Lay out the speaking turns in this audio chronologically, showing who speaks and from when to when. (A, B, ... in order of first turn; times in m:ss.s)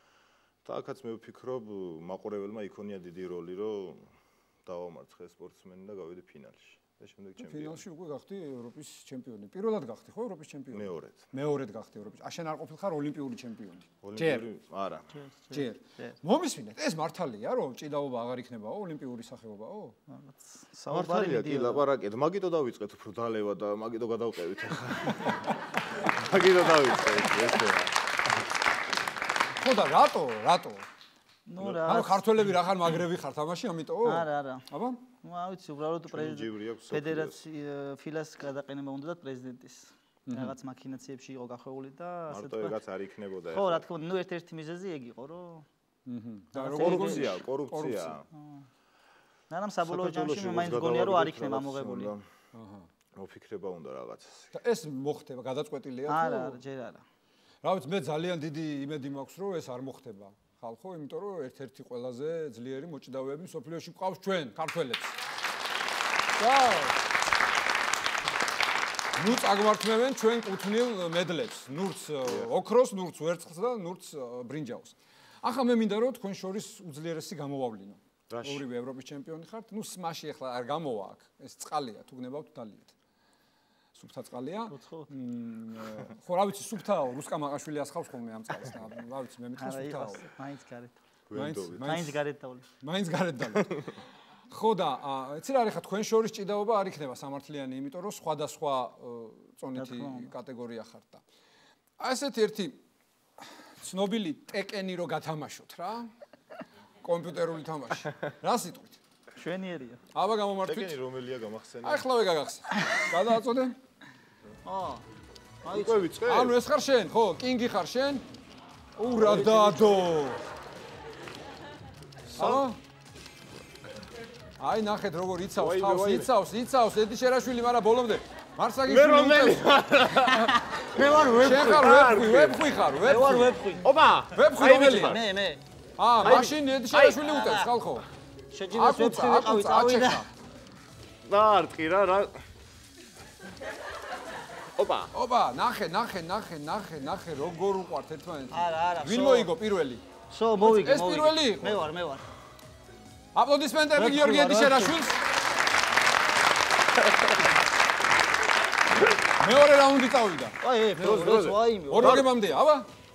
0:00.6-0:04.1 A
0:04.7-0:07.8 A
0:07.4-0:14.5 B
0:10.7-0:11.2 A
0:14.0-0:15.1 A
0:15.1-0:16.1 C
0:15.5-0:20.0 B
0:20.1-0:21.8 C
0:20.9-0:25.4 A
0:26.0-0:28.0 A
0:29.6-0:30.8 B
0:31.5-0:32.2 C
0:31.8-0:35.1 B
0:34.0-0:42.8 C
0:36.1-0:37.4 A
0:40.3-0:40.6 B
0:42.3-0:43.9 A
0:43.5-0:45.7 C
0:46.1-0:48.2 B
0:46.5-0:47.5 C
0:46.8-0:48.2 A
0:48.3-0:48.6 C
0:49.5-0:52.1 C
0:49.9-0:52.2 A
0:52.5-0:52.9 B
0:53.2-0:54.5 A
0:54.5-0:56.6 B
0:56.1-0:57.0 C
0:57.6-1:05.2 B
1:06.4-1:07.0 B
1:09.2-1:22.9 B
1:12.2-1:12.5 A
1:18.3-1:18.6 A
1:24.0-1:30.2 B
1:24.7-1:25.1 C
1:29.6-1:31.0 C
1:31.3-1:31.8 A
1:31.3-1:33.9 B
1:31.8-1:32.7 C
1:34.5-1:41.2 B
1:39.8-1:40.3 C
1:42.0-1:42.8 B
1:43.4-1:46.1 B
1:47.0-1:49.0 B
1:49.4-1:50.0 C
1:50.1-1:51.0 B
1:50.6-1:52.0 A
1:51.8-1:53.8 B
1:54.6-1:55.0 C
1:55.6-1:56.2 C
1:55.7-1:56.5 A
1:56.2-1:58.2 B
1:59.0-2:00.4 B
1:59.1-1:59.9 A
2:02.4-2:02.8 B
2:04.6-2:10.5 B
2:05.6-2:06.3 A
2:08.9-2:10.5 A
2:10.4-2:12.0 C
2:11.3-2:13.6 B
2:11.5-2:12.6 A
2:13.0-2:13.9 C
2:13.8-2:15.2 A
2:14.3-2:15.2 B
2:15.0-2:15.6 C
2:16.0-2:18.1 B
2:16.2-2:16.5 C
2:16.2-2:17.2 A
2:17.3-2:17.7 C
2:18.5-2:20.2 C
2:18.7-2:20.3 B
2:21.2-2:22.3 A
2:24.8-2:25.1 A
2:25.1-2:31.8 B
2:28.5-2:29.5 C
2:30.3-2:32.2 C
2:33.3-2:35.2 B
2:34.0-2:35.0 C
2:39.3-2:40.6 B
2:40.6-2:42.2 C
2:41.0-2:42.3 A
2:41.9-2:42.9 B